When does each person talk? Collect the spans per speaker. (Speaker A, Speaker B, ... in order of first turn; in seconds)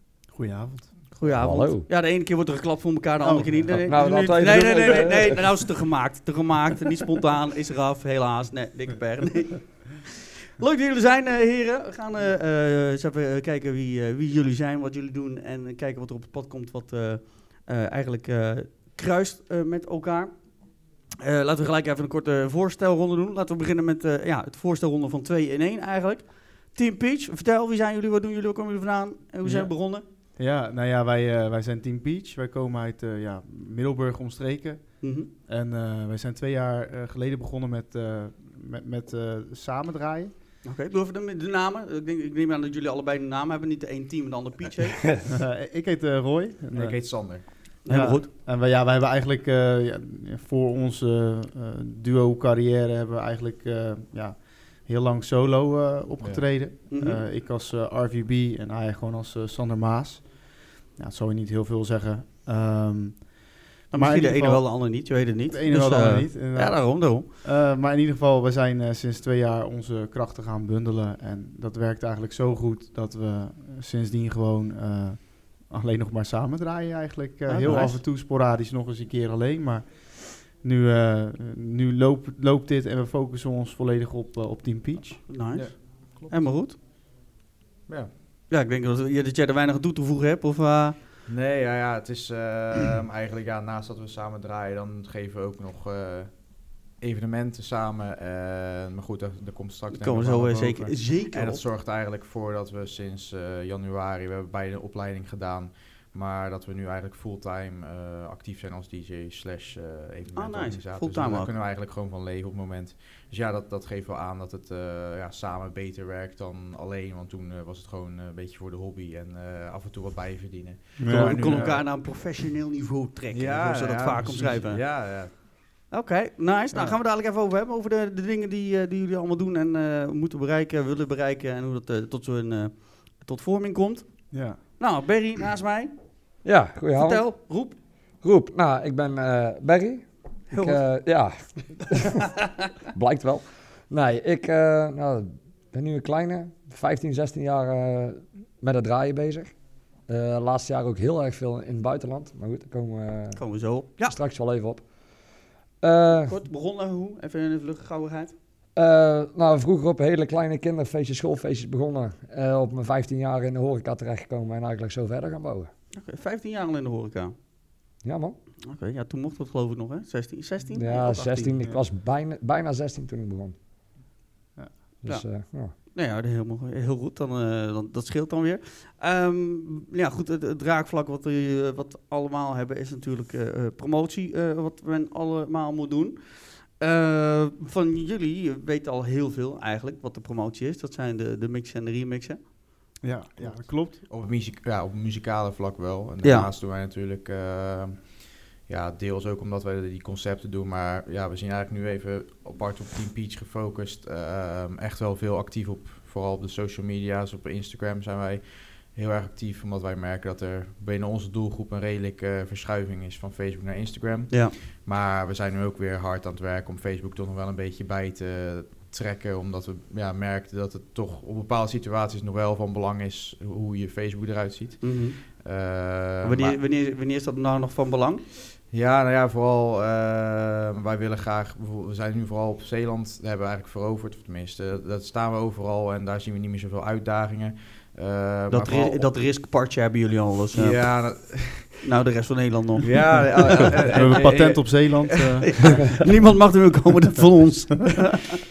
Speaker A: 0.3-1.0, 3.2-3.7, 29.4-40.3, 45.3-85.3, 121.0-121.8, 126.7-127.0, 134.3-134.6, 174.5-174.8, 193.0-194.1, 243.9-245.5
Speaker B: 1.1-30.0, 35.0-35.3, 40.6-45.1, 47.8-48.3, 56.9-57.2, 63.9-67.2, 77.5-78.0, 85.3-86.8, 88.5-91.0, 99.9-101.6, 110.3-111.5, 121.0-125.0, 125.9-136.4, 136.9-137.8, 140.5-142.1, 153.3-154.2, 156.2-158.3, 165.9-167.3, 168.7-171.6, 175.0-193.6, 196.2-196.5, 224.8-225.2, 226.2-228.2, 238.5-240.9, 241.8-243.8, 245.4-248.3
Speaker C: 1.2-1.9, 3.7-5.7, 136.4-154.9, 155.8-156.3, 158.8-165.7, 168.0-168.3, 170.7-173.6, 175.0-175.7
Speaker D: 46.7-47.5, 56.2-56.5, 85.5-86.5, 91.3-121.9, 123.3-125.3, 193.5-226.6, 228.7-239.1, 240.5-241.8, 242.8-245.6